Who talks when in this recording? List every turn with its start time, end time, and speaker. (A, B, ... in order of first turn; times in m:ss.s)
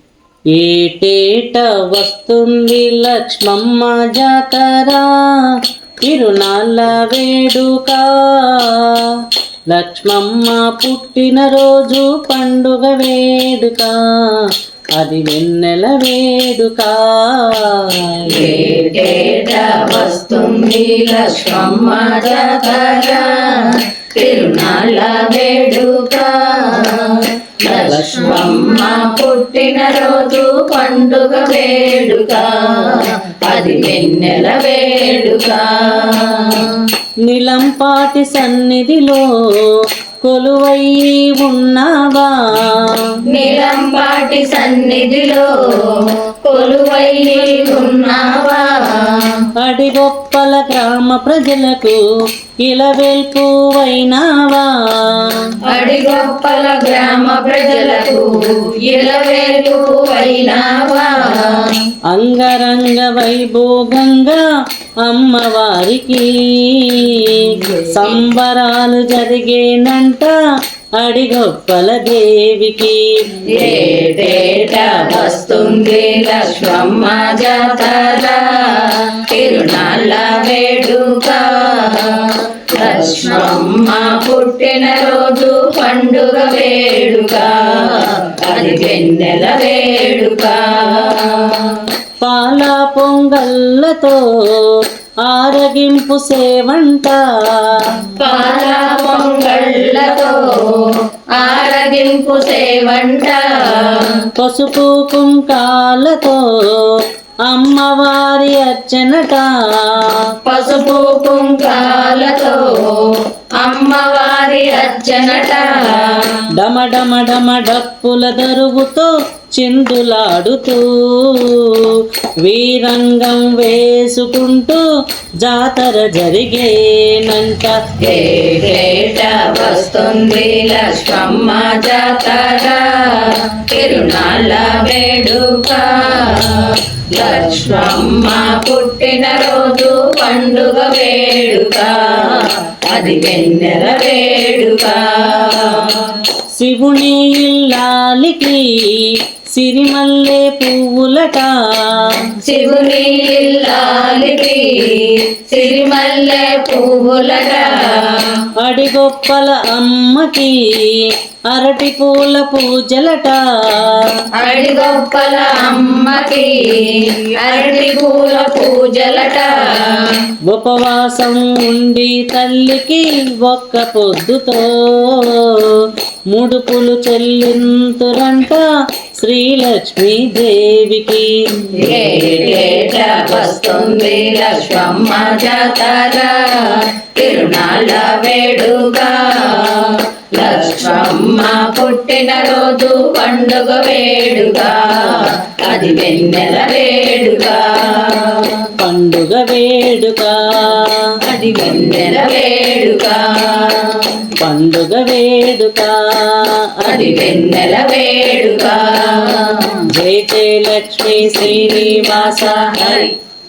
0:00.5-0:05.2 A
0:06.0-0:09.0 A
0:09.7-0:14.3 A
0:15.0-0:18.5 A
0:18.2-0:36.9 B
0:27.8-0:28.5 A
0:37.2-0:43.0 A
0:43.3-0:49.5 B
0:49.6-0:52.0 A
0:52.6-0:55.6 A
0:55.6-1:01.9 B
1:02.1-1:04.4 A
1:05.0-1:10.3 A
1:07.4-1:08.2 B
1:11.0-1:13.3 A
1:13.5-1:31.9 B
1:32.2-1:38.1 A
1:38.2-1:44.3 B
1:44.4-1:50.3 A
1:50.4-1:56.4 B
1:56.5-2:04.8 A
2:05.4-2:07.7 A
2:08.0-2:26.2 B
2:26.5-2:32.2 A
2:32.4-2:38.4 B
2:38.6-2:44.0 A
2:44.3-2:50.3 B
2:50.5-2:58.6 A
2:59.2-3:01.8 A
3:01.8-3:18.7 B
3:18.8-3:21.1 A
3:21.2-3:24.3 B
3:24.4-3:27.1 A
3:26.8-3:29.8 B
3:29.9-3:33.1 A
3:31.8-3:33.1 B